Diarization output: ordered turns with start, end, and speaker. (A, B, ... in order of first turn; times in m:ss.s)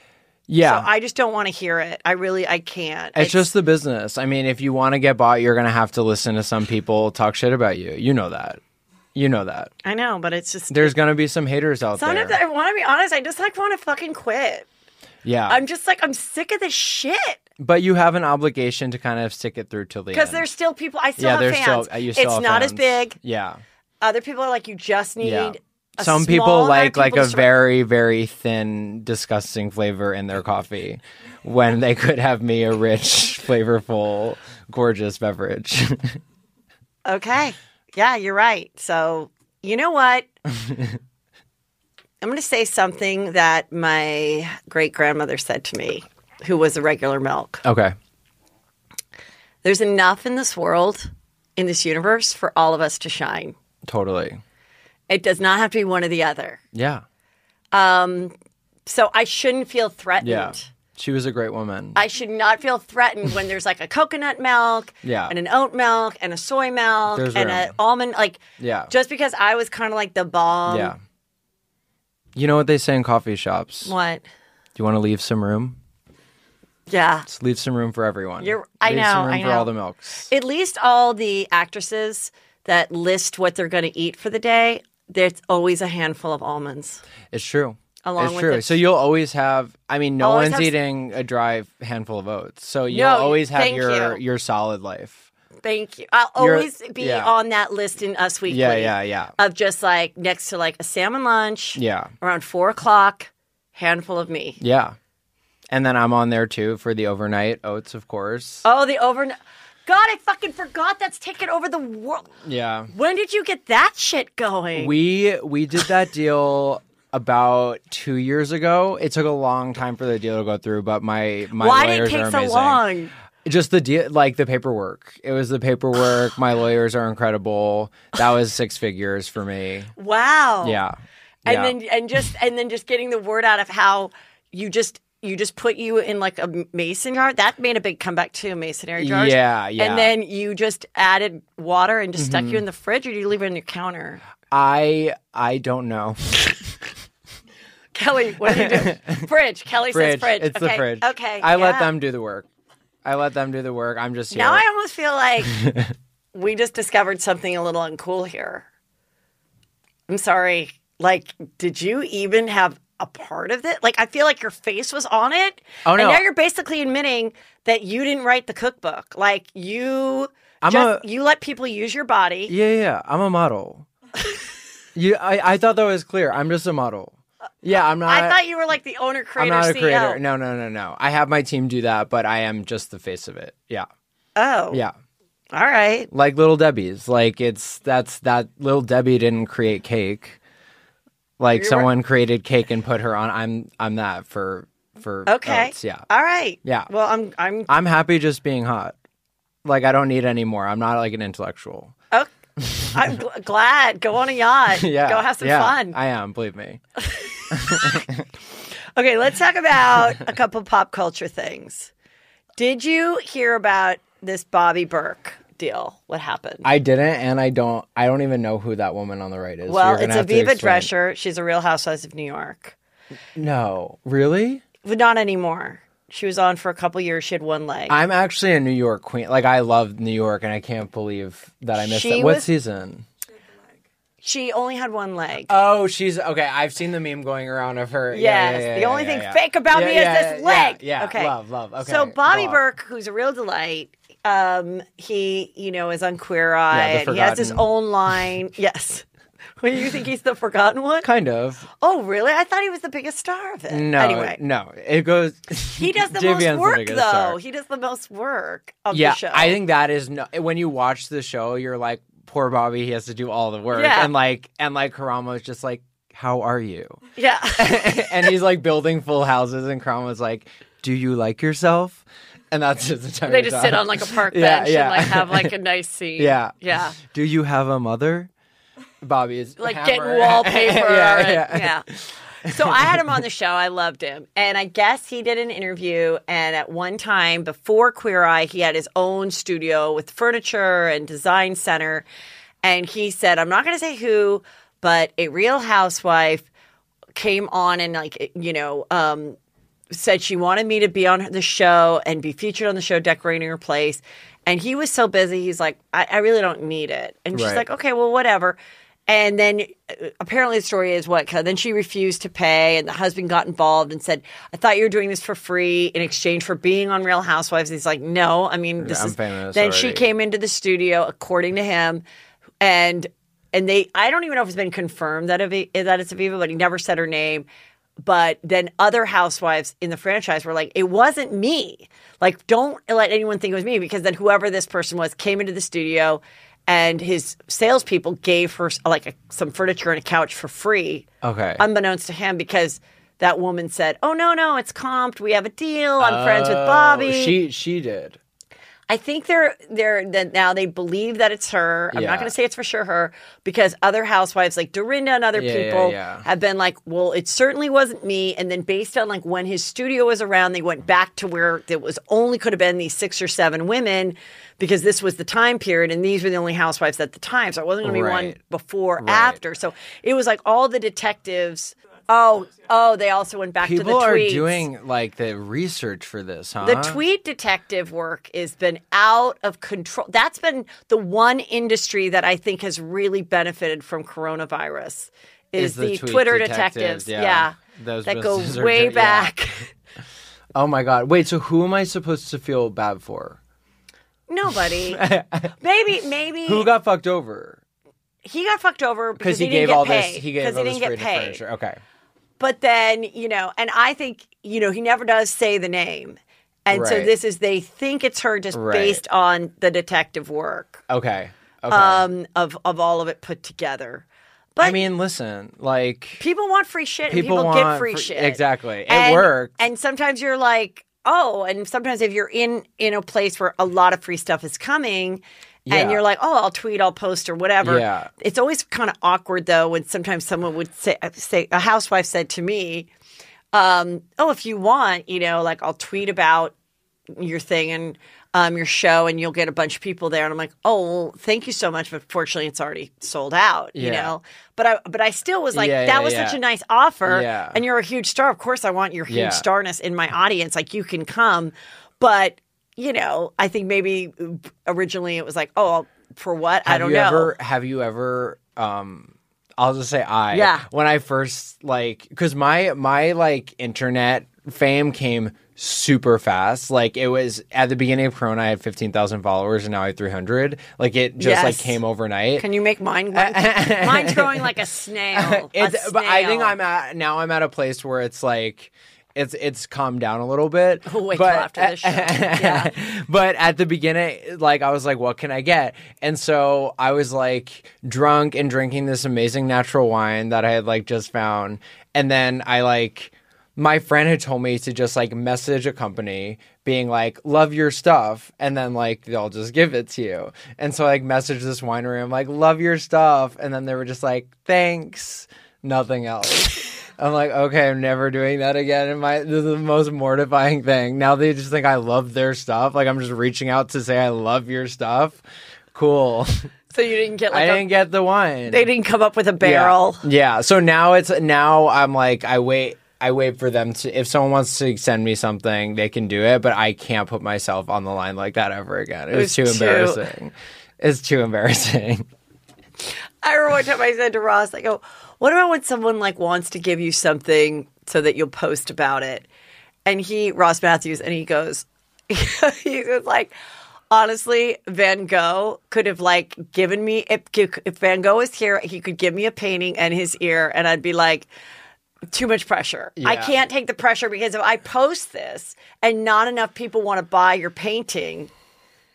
0:00.5-0:00.9 A
0:00.6-0:03.5 B
0:03.2-0:08.6 A
0:09.2-0:09.7 A
0:09.8-0:11.0 B
0:10.7-0:12.4 A
0:12.0-0:14.7 B
0:15.2-0:15.6 A
0:15.5-0:17.4 B
0:17.6-0:20.5 A
0:20.1-0:23.2 B
0:21.2-0:23.6 A
0:24.0-0:27.5 B
0:25.2-0:36.2 A
0:37.1-0:40.3 B
0:40.7-0:41.0 A
0:42.2-0:47.6 B
0:47.6-0:48.0 A
0:49.6-0:53.6 B
0:53.8-0:54.4 A
0:55.1-0:56.6 B
0:56.7-0:57.0 A
0:57.7-0:58.3 B
0:58.9-1:00.7 B
1:00.2-1:02.0 A
1:02.0-1:10.9 B
1:05.0-1:05.3 A
1:07.1-1:07.8 A
1:08.6-1:08.9 A
1:10.7-1:11.0 A
1:12.4-1:13.9 A
1:13.8-1:14.2 B
1:14.8-1:15.8 A
1:16.9-1:17.3 B
1:17.3-1:20.3 A
1:18.4-1:19.7 B
1:20.3-1:27.0 B
1:27.3-1:35.2 A
1:28.0-1:28.8 B
1:30.2-1:30.8 B
1:32.9-1:34.2 B
1:35.6-1:44.6 B
1:36.4-1:37.3 A
1:38.5-1:39.3 A
1:41.8-1:42.1 A
1:44.6-1:45.0 A
1:45.7-1:48.6 A
1:48.6-1:52.3 B
1:52.4-1:52.9 A
1:52.9-1:55.0 B
1:54.8-2:02.8 A
2:01.6-2:03.1 B
2:03.4-2:09.9 A
2:10.0-2:10.8 B
2:10.6-2:11.8 A
2:11.5-2:24.2 B
2:19.0-2:20.1 A
2:22.2-2:22.6 A
2:24.5-2:26.7 A
2:27.9-2:31.9 B
2:28.4-2:29.2 A
2:29.9-2:32.5 A
2:33.0-2:34.6 A
2:34.3-2:35.6 B
2:35.5-2:35.9 A
2:36.3-2:38.7 B
2:40.1-2:52.5 B
2:45.8-2:46.2 A
2:50.6-2:51.0 A
2:52.5-2:53.9 A
2:55.0-2:58.4 A
2:58.0-3:00.2 B
2:59.4-3:03.9 A
3:04.4-3:04.8 B
3:05.5-3:06.1 B
3:06.1-3:10.4 A
3:11.4-3:16.1 A
3:11.6-3:11.9 B
3:15.3-3:17.7 B
3:16.6-3:16.9 A
3:17.7-3:19.0 A
3:19.6-3:21.9 A
3:22.1-3:26.0 B
3:22.6-3:23.1 A
3:24.7-3:26.8 A
3:27.0-3:28.0 B
3:27.5-3:28.3 A
3:29.0-3:31.9 B
3:32.6-3:36.7 B
3:36.6-3:40.9 A
3:39.7-3:42.8 B
3:43.4-3:44.6 A
3:44.8-3:48.0 B
3:47.9-3:53.1 A
3:51.8-3:52.5 B
3:54.2-3:55.5 B
3:55.5-4:02.6 A
3:58.1-4:09.0 B
4:06.7-4:07.6 A
4:09.6-4:11.1 B
4:11.0-4:11.7 A
4:11.7-4:14.4 B
4:13.7-4:17.4 A
4:15.7-4:19.6 B
4:18.9-4:27.0 A
4:23.7-4:24.1 B
4:27.2-4:28.3 B
4:27.6-4:35.5 A
4:33.3-4:37.0 B
4:36.2-4:38.3 A
4:39.0-4:43.2 A
4:39.6-4:41.9 B
4:42.4-4:52.1 B
4:52.6-4:56.5 B
4:57.2-4:59.4 B
4:59.9-5:08.6 B
5:07.3-5:07.6 A
5:09.1-5:22.0 B
5:18.8-5:20.0 A
5:22.6-5:27.5 B
5:28.0-5:41.1 B
5:41.2-5:41.6 A
5:41.6-5:47.4 B
5:46.0-5:48.2 A
5:48.9-6:14.6 B
5:51.9-5:52.3 A
5:55.4-5:56.2 A
6:07.8-6:08.4 A
6:09.0-6:09.4 A
6:13.6-6:17.0 A
6:16.6-6:29.7 B
6:25.6-6:29.3 A
6:30.6-6:33.4 A
6:34.3-6:35.0 B
6:34.9-6:35.5 A
6:35.6-6:36.7 B
6:36.5-6:37.6 A
6:38.2-6:41.4 B
6:39.2-6:41.8 A
6:42.4-6:50.8 B
6:46.7-6:47.1 A
6:48.5-6:49.0 A
6:50.9-6:52.0 A
6:51.7-6:54.8 B
6:54.6-6:56.2 A
6:56.2-7:12.9 B
6:57.1-6:59.6 A
7:05.7-7:06.0 A
7:07.6-7:08.1 A
7:13.5-7:16.5 B
7:17.1-7:37.3 B
7:23.8-7:24.1 A
7:25.5-7:26.4 A
7:27.1-7:27.6 A
7:29.1-7:29.4 A
7:36.6-7:52.5 A
7:40.3-7:40.6 B
7:51.2-7:51.8 B
7:52.4-7:56.6 B
7:53.1-7:54.5 A
7:55.1-8:35.2 A
8:00.9-8:02.7 B
8:35.7-8:36.5 A
8:36.7-8:37.7 B
8:37.3-8:38.7 A
8:38.5-8:40.0 B
8:39.4-8:52.1 A
8:49.1-8:50.0 B
8:53.2-8:59.3 B
8:59.9-9:03.3 B
9:03.9-9:11.3 B
9:12.1-9:18.3 B
9:13.0-9:13.3 A